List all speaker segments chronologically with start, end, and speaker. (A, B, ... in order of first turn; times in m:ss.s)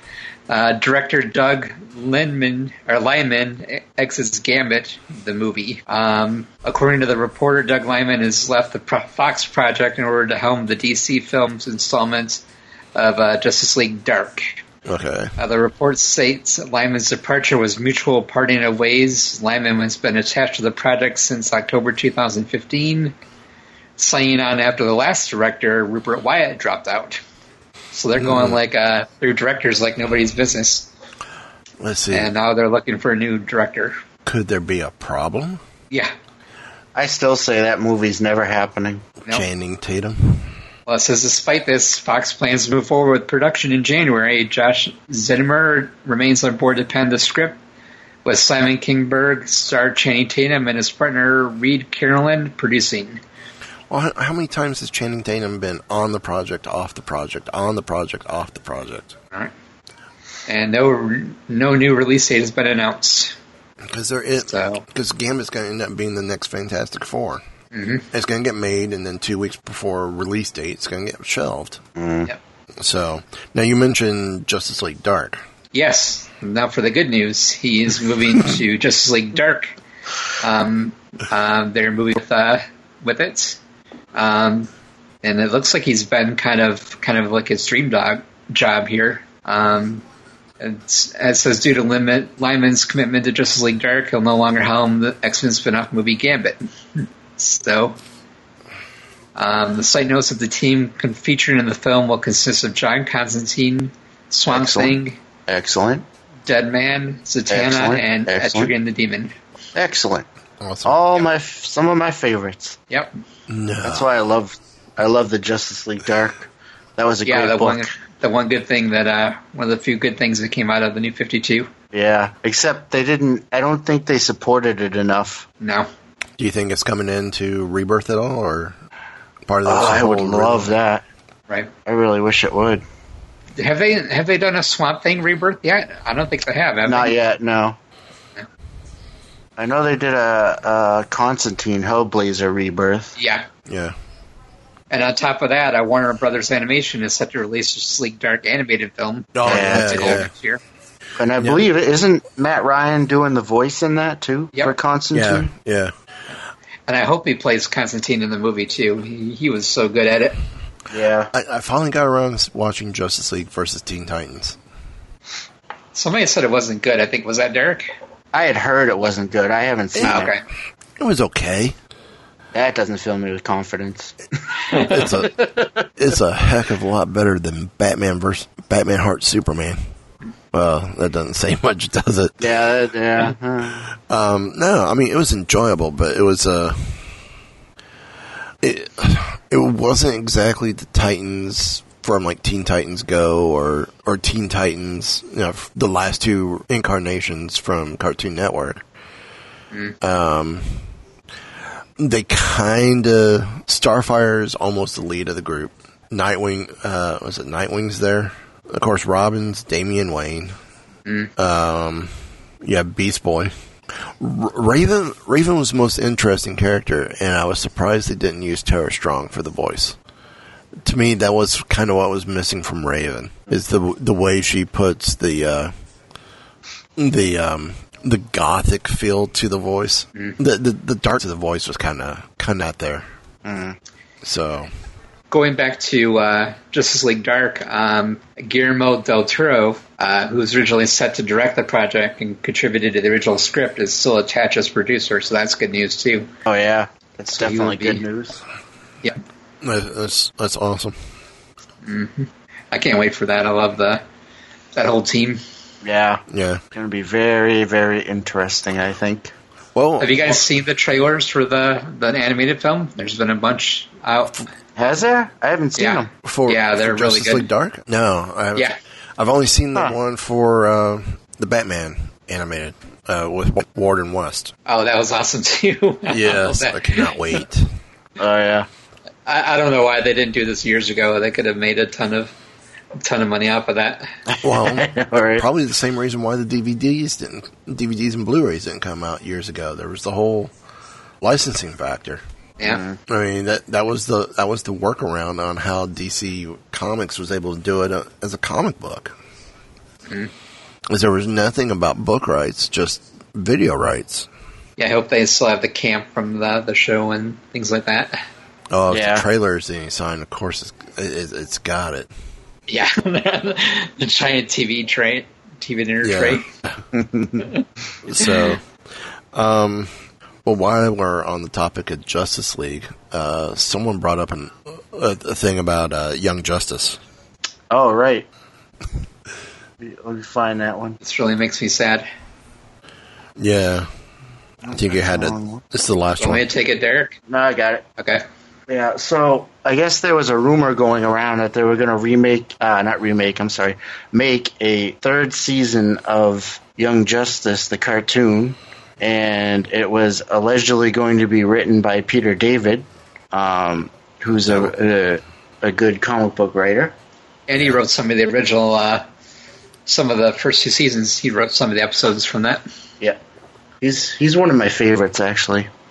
0:00.5-0:12.4 A
0:12.9-0:14.6 A
0:14.8-0:15.3 B
0:15.4-0:23.1 A
0:24.0-0:27.2 A
0:27.9-0:30.9 A
0:28.2-0:28.6 B
0:31.8-0:32.3 B
0:32.1-0:34.0 A
0:34.2-0:35.6 B
0:36.9-0:39.0 C
0:39.3-0:40.5 B
0:40.9-0:47.6 A
0:48.2-0:53.2 A
0:53.9-0:59.2 B
1:00.5-1:03.3 A
1:03.8-1:07.4 B
1:04.4-1:04.8 A
1:07.7-1:08.0 A
1:08.1-1:11.8 B
1:12.0-1:12.3 C
1:12.8-1:15.4 B
1:15.7-1:19.7 A
1:20.4-1:23.6 A
1:24.1-1:24.7 A
1:25.2-1:30.0 A
1:30.6-1:38.0 A
1:39.4-1:45.2 A
1:44.5-1:46.0 C
1:46.4-1:49.3 A
1:47.5-1:48.7 C
1:49.7-1:50.2 C
1:50.6-1:51.0 B
1:50.8-1:52.8 C
1:53.5-1:54.1 B
1:53.8-1:57.9 C
1:57.2-2:01.7 A
2:01.9-2:05.5 C
2:05.6-2:05.9 A
2:06.4-2:08.8 B
2:09.5-2:10.7 B
2:09.6-2:11.0 C
2:11.8-2:12.8 C
2:13.6-2:17.1 A
2:16.8-2:17.8 C
2:19.6-2:23.1 C
2:23.2-2:23.5 A
2:23.6-2:23.9 B
2:24.9-2:30.6 A
2:29.3-2:30.3 B
2:29.4-2:30.2 C
2:31.2-2:35.5 C
2:31.4-2:31.6 B
2:35.1-2:35.9 B
2:36.9-2:40.4 A
2:40.9-2:41.3 C
2:41.3-2:44.6 B
2:45.9-2:47.9 A
2:48.3-2:50.3 C
2:49.9-2:50.3 B
2:50.0-2:50.4 A
2:51.0-2:51.8 B
2:52.5-2:54.1 C
2:54.7-2:55.7 C
2:54.8-2:59.8 B
3:00.5-3:02.6 B
3:02.4-3:03.8 C
3:03.9-3:07.1 B
3:08.6-3:18.8 B
3:20.0-3:20.8 B
3:22.0-3:30.5 B
3:31.0-3:31.3 A
3:31.4-3:40.0 B
3:40.8-3:45.7 B
3:47.0-3:53.0 B
3:53.4-3:53.8 C
3:54.2-3:54.7 B
3:55.3-4:06.3 A
4:06.4-4:08.4 C
4:07.4-4:08.0 A
4:09.6-4:11.0 B
4:11.8-4:14.0 A
4:14.7-4:15.4 A
4:15.8-4:16.2 C
4:16.3-4:16.6 B
4:16.7-4:19.3 C
4:19.7-4:20.4 B
4:20.0-4:24.4 A
4:24.8-4:26.1 C
4:25.8-4:27.5 A
4:26.2-4:34.5 B
4:34.6-4:37.4 A
4:36.1-4:37.7 B
4:38.2-4:38.7 C
4:39.2-4:42.3 A
4:43.0-4:44.1 A
4:44.3-4:45.4 C
4:44.4-4:50.5 B
4:51.2-4:52.2 B
4:52.6-4:53.0 C
4:53.1-4:59.1 B
5:00.9-5:04.3 B
5:04.8-5:08.2 A
5:08.7-5:12.1 B
5:08.9-5:09.2 C
5:12.7-5:16.5 A
5:16.0-5:16.8 B
5:16.9-5:17.4 C
5:18.0-5:18.6 B
5:19.3-5:19.9 B
5:20.4-5:27.0 B
5:27.7-5:28.3 C
5:29.8-5:31.0 C
5:31.0-5:32.0 A
5:33.4-5:33.9 B
5:34.6-5:35.6 C
5:34.7-5:36.4 B
5:36.2-5:37.2 A
5:37.3-5:37.8 C
5:38.0-5:38.2 A
5:38.7-5:56.9 C
5:57.5-5:59.0 A
5:59.8-6:02.6 A
6:03.8-6:05.7 C